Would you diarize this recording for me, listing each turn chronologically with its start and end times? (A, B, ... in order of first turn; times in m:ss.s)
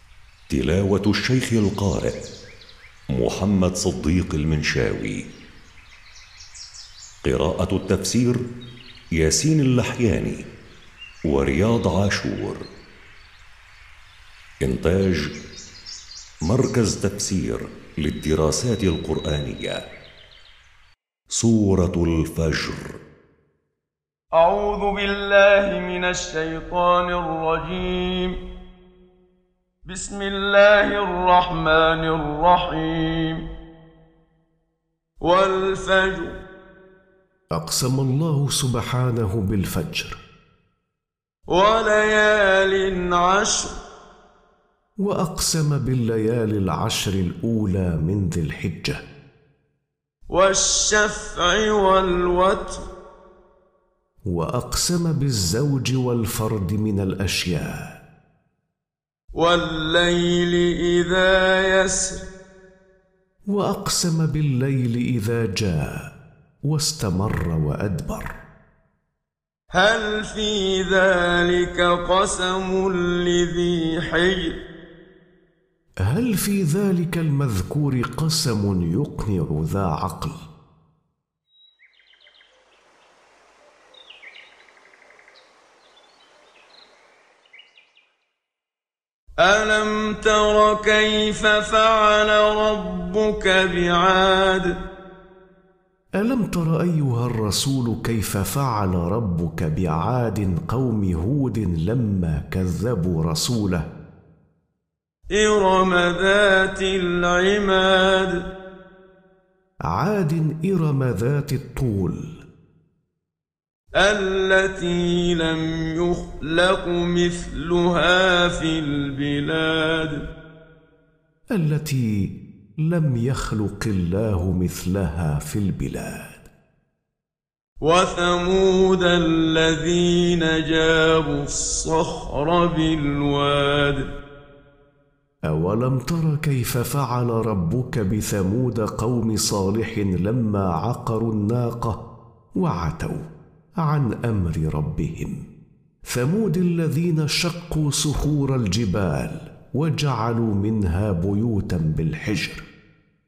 0:00.5-0:02.1 A
0:03.1-0:05.2 A
0:07.2-0:08.4 A
0:09.2-0:10.4 A
0:11.3-0:12.6 A
0:14.6-0:15.2 A
0:16.4-0:19.8 A
0:21.3-0:22.9 A
0:24.3-0:28.4 B
0:29.8-0:33.4 B
0:35.2-0:36.3 B
0:37.5-0:40.2 C
0:41.5-0:43.7 B
0:45.0-0:49.0 C
0:50.3-0:52.9 B
0:54.3-0:57.8 C
0:59.3-1:02.2 B
1:03.5-1:06.0 C
1:06.7-1:08.3 C
1:09.7-1:14.6 B
1:16.1-1:20.4 C
1:29.4-1:34.7 B
1:36.2-1:43.8 C
1:45.3-1:48.4 B
1:49.9-1:52.4 C
1:54.0-2:00.3 B
2:01.5-2:06.5 C
2:07.8-2:14.0 B
2:15.5-2:21.9 C
2:22.6-2:23.2 C
2:23.8-2:25.4 C
2:26.1-2:32.6 C